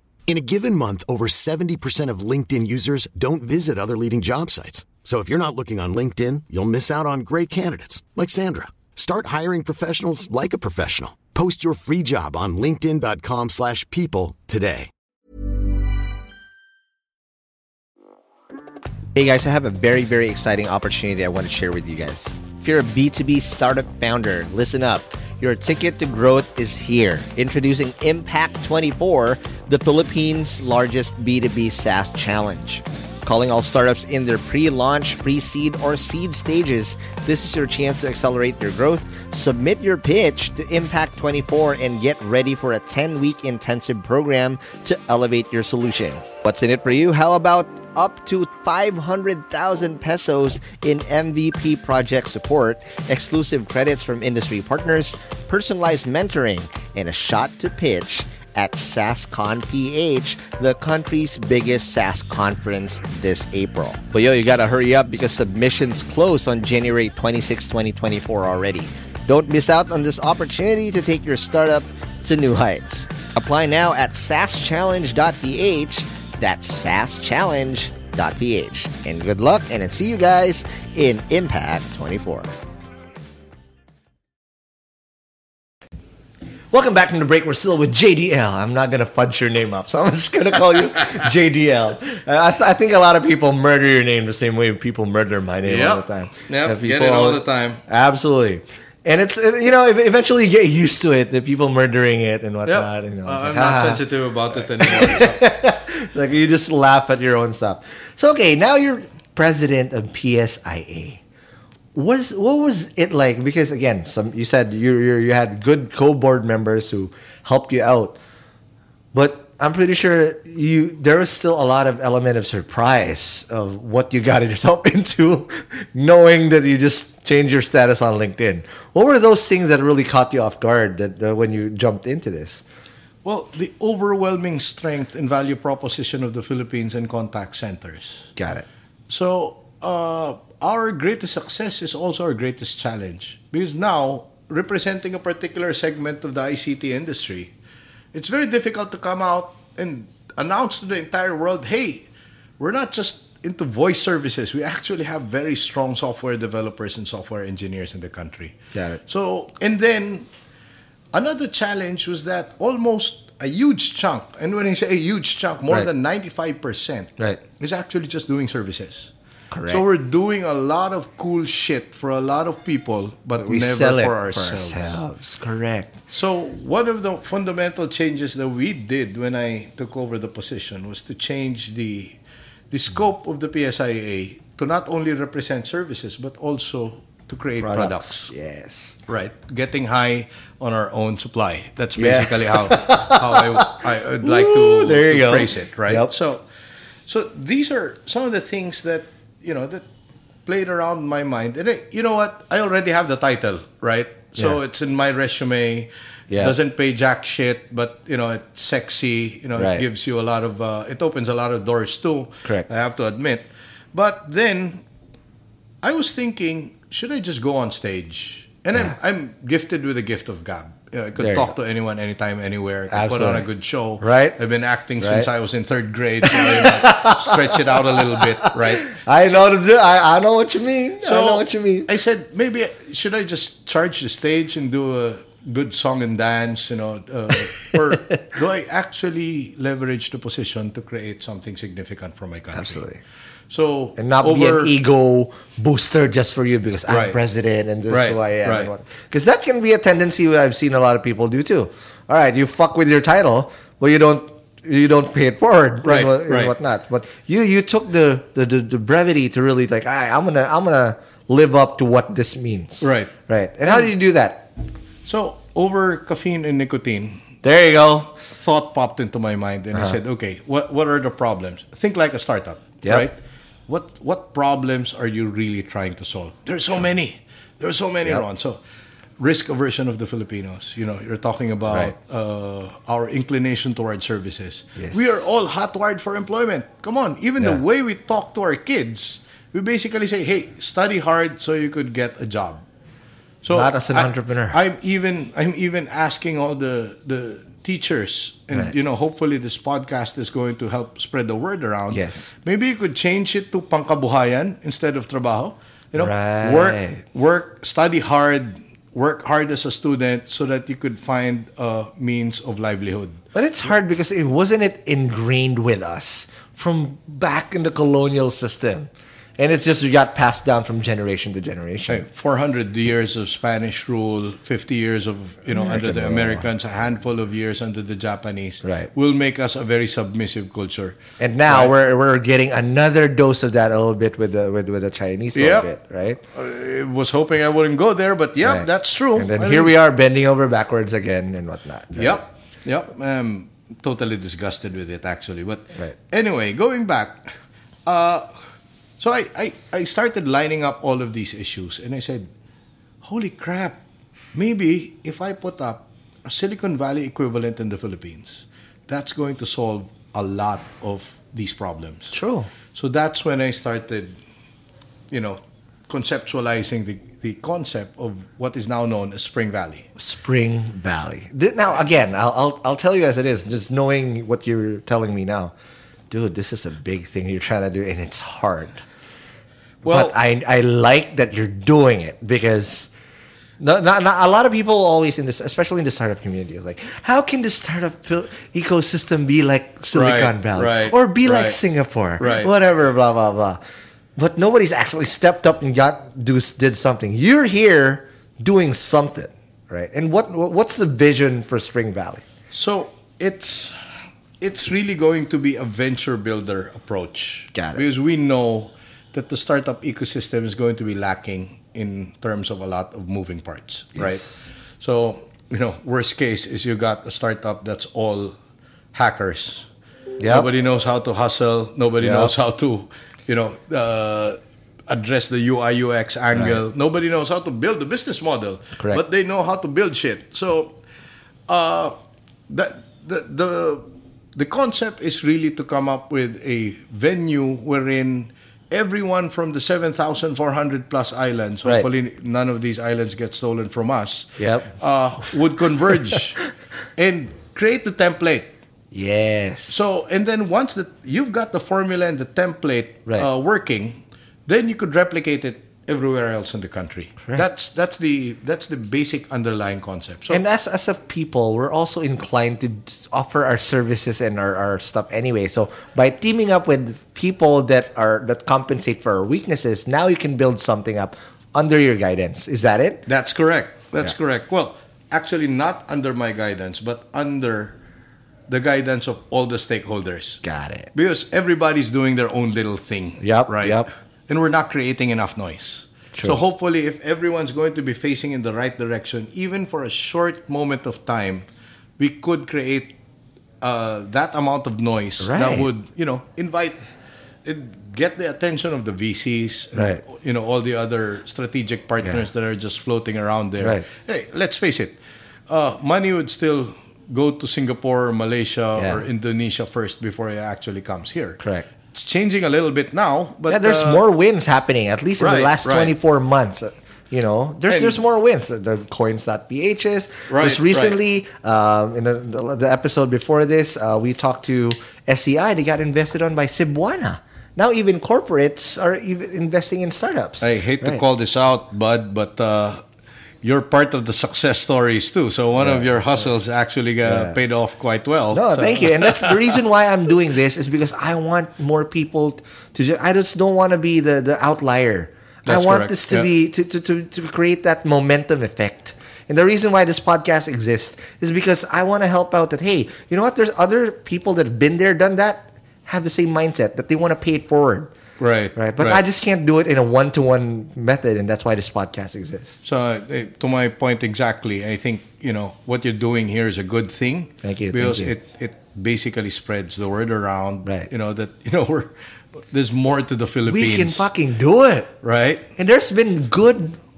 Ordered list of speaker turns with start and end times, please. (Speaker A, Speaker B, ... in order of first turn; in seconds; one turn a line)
Speaker A: 0.3-14.9
Speaker B: 19.1-82.5
Speaker B: 86.7-104.0
Speaker C: 95.6-97.8
Speaker C: 102.6-105.5
Speaker B: 104.5-111.2
Speaker B: 111.9-118.2
Speaker B: 119.1-132.6
Speaker C: 133.2-138.3
Speaker B: 138.3-138.6
Speaker C: 139.1-147.5
Speaker C: 148.1-152.1
Speaker C: 152.6-160.3
Speaker B: 158.7-159.0
Speaker C: 161.1-169.1
Speaker B: 169.5-169.8
Speaker C: 169.7-175.0
Speaker B: 173.4-175.9
Speaker C: 176.1-182.2
Speaker C: 182.7-188.3
Speaker B: 187.6-189.0
Speaker C: 189.1-196.4
Speaker B: 191.9-196.1
Speaker C: 197.1-199.8
Speaker C: 200.4-214.8
Speaker B: 209.6-209.8
Speaker C: 215.8-229.5
Speaker B: 221.2-221.5
Speaker B: 222.9-223.4
Speaker B: 224.0-224.4
Speaker B: 225.0-225.3
Speaker B: 226.3-231.9
Speaker C: 231.0-242.8
Speaker B: 237.6-238.2
Speaker B: 242.5-243.0
Speaker C: 243.5-244.7
Speaker B: 244.0-264.5
Speaker C: 246.9-247.2
Speaker C: 247.9-248.7
Speaker C: 255.8-256.5
Speaker C: 262.8-263.1
Speaker C: 263.6-263.9
Speaker C: 265.0-267.2
Speaker B: 267.4-268.2
Speaker C: 268.3-278.6
Speaker B: 272.8-273.1
Speaker C: 279.2-292.6
Speaker B: 281.7-281.9
Speaker B: 284.8-285.2
Speaker C: 293.4-313.2
Speaker B: 293.5-294.6
Speaker B: 301.9-302.3
Speaker B: 306.0-307.0
Speaker B: 313.3-322.0
Speaker C: 321.9-331.7
Speaker B: 325.5-326.4
Speaker B: 328.6-328.9
Speaker B: 331.2-336.2
Speaker C: 335.3-335.7
Speaker C: 336.3-339.8
Speaker B: 338.4-342.2
Speaker C: 341.9-348.4
Speaker C: 349.0-352.3
Speaker C: 353.0-353.8
Speaker C: 354.3-362.1
Speaker B: 362.1-362.5
Speaker C: 362.7-364.2
Speaker C: 365.1-369.9
Speaker B: 370.0-375.5
Speaker B: 376.1-378.8
Speaker C: 379.8-380.1
Speaker B: 379.9-382.9
Speaker B: 383.6-393.6
Speaker C: 389.9-391.6
Speaker C: 392.2-392.5
Speaker B: 394.1-402.2
Speaker C: 402.5-403.8
Speaker C: 404.4-418.4
Speaker B: 407.5-407.8
Speaker B: 413.9-414.5
Speaker C: 418.9-419.7
Speaker B: 420.2-420.5
Speaker C: 420.2-430.8
Speaker B: 422.0-422.3
Speaker B: 426.3-426.6
Speaker C: 431.5-431.9
Speaker C: 432.5-446.4
Speaker B: 444.4-444.7
Speaker C: 447.0-448.5
Speaker B: 448.9-449.9
Speaker C: 449.7-460.4
Speaker B: 460.3-473.0
Speaker C: 473.1-477.8
Speaker C: 478.5-480.4
Speaker B: 480.4-480.9
Speaker C: 480.9-491.4
Speaker B: 483.2-483.9
Speaker B: 486.1-486.4
Speaker C: 492.0-492.9
Speaker C: 493.6-496.8
Speaker B: 495.2-495.7
Speaker C: 497.4-514.0
Speaker B: 499.7-500.0
Speaker B: 503.6-503.9
Speaker B: 508.8-509.1
Speaker B: 511.4-511.7
Speaker B: 513.5-531.0
Speaker C: 515.2-515.9
Speaker C: 517.7-518.0
Speaker C: 520.3-521.0
Speaker C: 530.4-532.8
Speaker C: 533.4-539.6
Speaker B: 535.6-535.9
Speaker B: 537.0-537.4
Speaker B: 538.3-557.9
Speaker C: 545.4-546.3
Speaker C: 558.2-559.0
Speaker B: 558.5-562.6
Speaker C: 562.6-571.9
Speaker B: 567.4-568.1
Speaker B: 570.6-570.9
Speaker C: 572.5-574.1
Speaker B: 573.5-574.9
Speaker C: 575.0-575.4
Speaker B: 575.6-576.8